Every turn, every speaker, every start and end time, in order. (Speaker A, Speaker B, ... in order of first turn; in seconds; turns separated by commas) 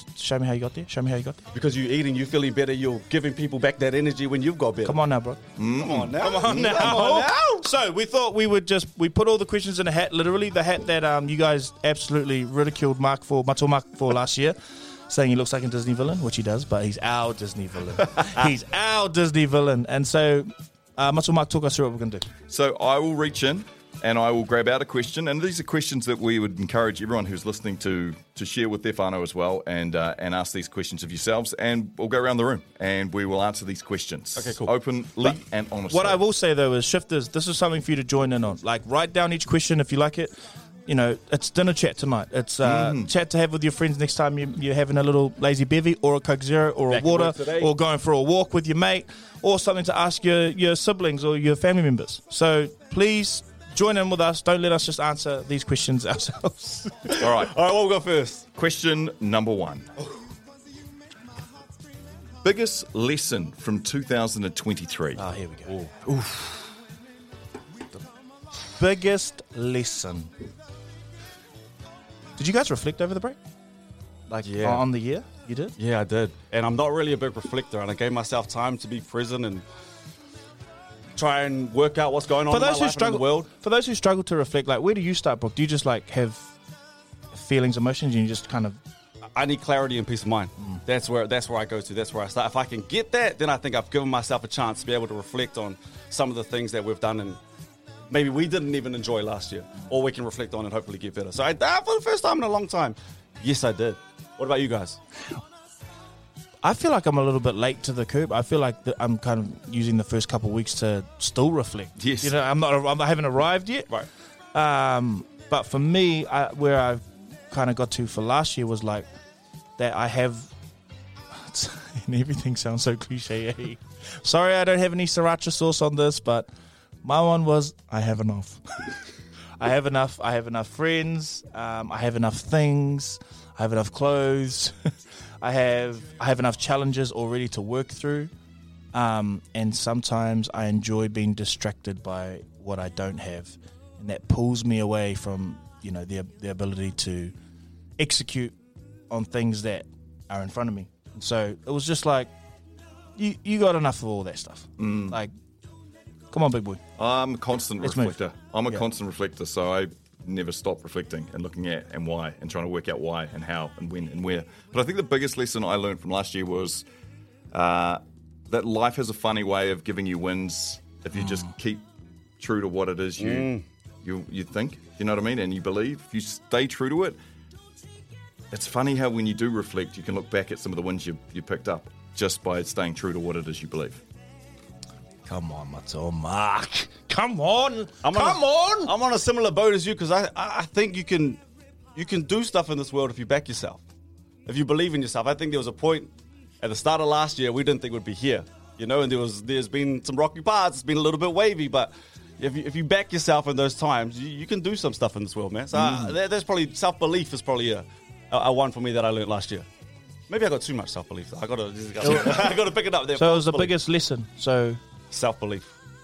Speaker A: 0.2-1.4, Speaker B: 1.5-5.0, Speaker A: 4.8-5.4, Speaker C: 5.6-6.9, Speaker B: 5.7-7.7, Speaker A: 6.2-14.6, Speaker A: 15.1-22.3, Speaker C: 22.5-36.2, Speaker B: 34.4-34.7, Speaker A: 35.9-40.3, Speaker A: 40.9-57.1, Speaker C: 42.6-43.1, Speaker B: 46.9-47.7, Speaker B: 57.1-58.5, Speaker C: 57.2-57.5, Speaker C: 58.5-59.9, Speaker C: 62.4-65.2, Speaker A: 65.2-65.8, Speaker B: 65.7-66.6, Speaker A: 68.7-70.3, Speaker A: 72.4-73.4, Speaker A: 74.3-75.8, Speaker B: 74.4-74.8, Speaker B: 75.8-79.6, Speaker B: 81.2-83.5, Speaker A: 82.5-86.5, Speaker A: 87.3-88.8, Speaker B: 89.3-97.4, Speaker B: 98.1-105.0, Speaker A: 106.6-113.9, Speaker C: 112.0-112.3, Speaker A: 114.5-119.1, Speaker A: 119.8-120.5, Speaker A: 121.3-126.5, Speaker A: 127.0-129.0, Speaker A: 129.6-134.7, Speaker A: 135.4-138.3, Speaker A: 138.9-147.3, Speaker A: 148.0-148.6, Speaker A: 149.1-152.3, Speaker A: 153.2-155.3, Speaker C: 154.8-155.2, Speaker A: 156.3-156.8, Speaker C: 157.0-166.8, Speaker A: 157.8-158.2, Speaker C: 167.5-171.8, Speaker C: 172.4-173.5, Speaker B: 173.2-173.6, Speaker C: 174.0-177.2, Speaker C: 178.5-184.0, Speaker A: 185.3-188.9, Speaker B: 188.0-191.4, Speaker B: 191.9-193.8, Speaker B: 194.5-196.1, Speaker B: 196.6-209.7, Speaker B: 210.3-213.7, Speaker A: 212.0-212.6, Speaker A: 213.2-214.8, Speaker B: 215.1-215.7